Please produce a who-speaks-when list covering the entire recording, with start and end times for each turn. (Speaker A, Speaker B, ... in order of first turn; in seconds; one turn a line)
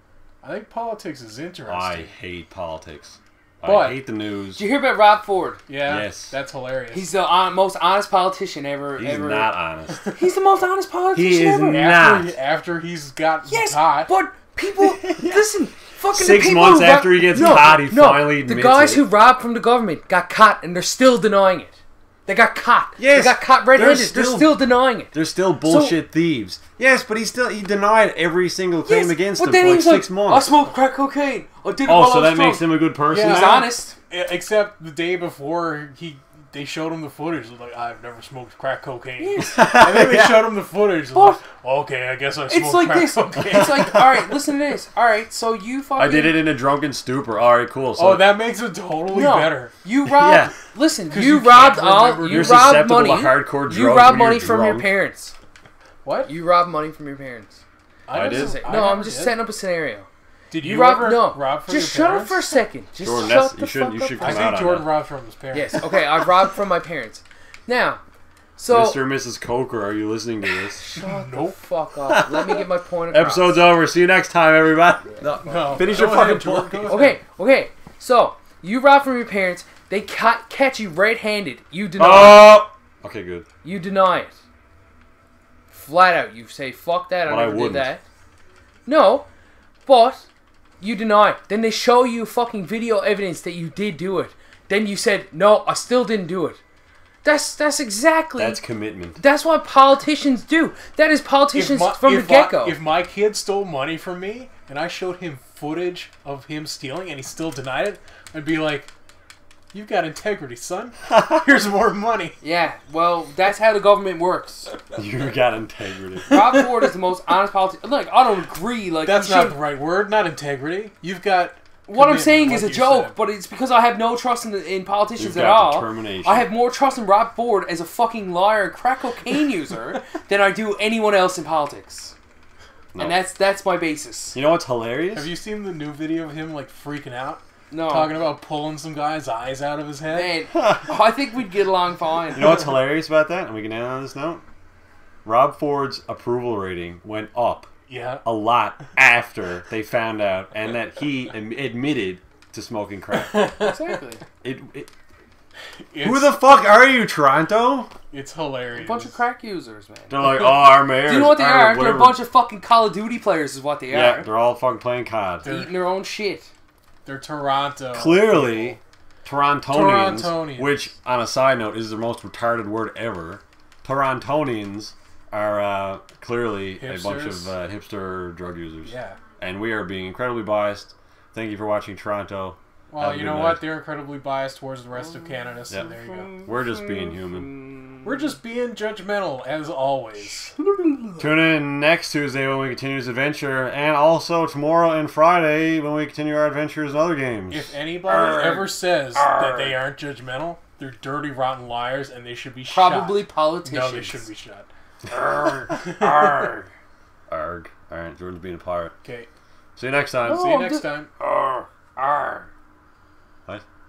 Speaker A: 0.4-2.1
Speaker B: 1.7-4.6
Speaker A: 3.6-4.0
Speaker C: 4.5-5.6
Speaker A: 5.7-7.1
Speaker B: 5.8-6.3
Speaker C: 6.9-9.5
Speaker B: 9.0-10.0
Speaker C: 10.1-11.8
Speaker B: 11.1-12.3
Speaker A: 11.6-14.1
Speaker C: 13.4-26.0
Speaker B: 14.8-15.4
Speaker B: 16.1-19.1
Speaker B: 23.0-30.5
Speaker C: 28.8-34.0
Speaker B: 31.9-33.7
Speaker A: 33.1-44.0
Speaker C: 39.2-39.7
Speaker B: 39.4-40.5
Speaker C: 41.1-41.4
Speaker C: 42.5-46.4
Speaker B: 43.7-44.0
Speaker B: 46.0-48.4
Speaker A: 48.0-49.7
Speaker C: 49.1-55.4
Speaker B: 50.0-50.5
Speaker A: 51.1-52.8
Speaker B: 52.2-54.9
Speaker A: 56.0-56.3
Speaker C: 56.2-57.6
Speaker A: 58.1-59.4
Speaker B: 58.1-58.6
Speaker C: 58.2-64.5
Speaker A: 60.5-62.4
Speaker B: 63.0-65.0
Speaker A: 64.2-66.3
Speaker C: 65.5-68.0
Speaker C: 68.6-69.0
Speaker B: 68.7-70.8
Speaker C: 70.8-73.7
Speaker A: 70.9-71.6
Speaker B: 72.1-77.0
Speaker A: 75.4-77.2
Speaker C: 76.9-82.6
Speaker B: 82.0-83.5
Speaker C: 83.6-84.4
Speaker C: 85.7-88.0
Speaker B: 87.2-87.9
Speaker C: 88.9-89.3
Speaker C: 89.8-90.3
Speaker C: 90.8-96.6
Speaker C: 97.2-98.6
Speaker B: 98.4-99.2
Speaker C: 99.2-102.8
Speaker A: 101.5-108.9
Speaker A: 109.7-112.4
Speaker C: 112.4-114.8
Speaker B: 115.0-116.5
Speaker A: 116.3-116.9
Speaker C: 116.3-119.6
Speaker A: 119.0-123.1
Speaker C: 121.9-132.2
Speaker B: 125.2-126.5
Speaker B: 132.9-133.2
Speaker C: 133.0-134.4
Speaker B: 134.3-135.3
Speaker A: 135.1-140.4
Speaker C: 137.7-138.2
Speaker C: 140.1-142.7
Speaker B: 140.6-140.8
Speaker B: 142.3-144.4
Speaker B: 145.2-147.7
Speaker A: 147.9-148.2
Speaker B: 148.2-153.5
Speaker A: 153.1-154.0
Speaker C: 153.6-154.2
Speaker B: 154.4-154.9
Speaker A: 155.9-156.3
Speaker B: 156.0-157.9
Speaker A: 158.1-159.2
Speaker C: 158.7-164.3
Speaker B: 160.1-162.2
Speaker B: 163.9-165.4
Speaker A: 165.4-165.8
Speaker C: 165.4-166.5
Speaker A: 167.0-168.8
Speaker B: 167.9-183.7
Speaker A: 169.7-170.8
Speaker A: 176.8-177.5
Speaker A: 178.8-179.2
Speaker A: 182.9-186.4
Speaker C: 184.9-188.3
Speaker B: 186.4-187.5
Speaker A: 188.0-190.5
Speaker C: 190.2-191.3
Speaker B: 191.2-197.7
Speaker A: 197.5-204.7
Speaker C: 198.0-199.8
Speaker C: 202.7-204.3
Speaker C: 205.1-206.7
Speaker A: 205.7-206.5
Speaker B: 207.3-208.9
Speaker A: 209.0-209.3
Speaker B: 209.8-210.4
Speaker C: 210.2-212.5
Speaker A: 210.2-211.1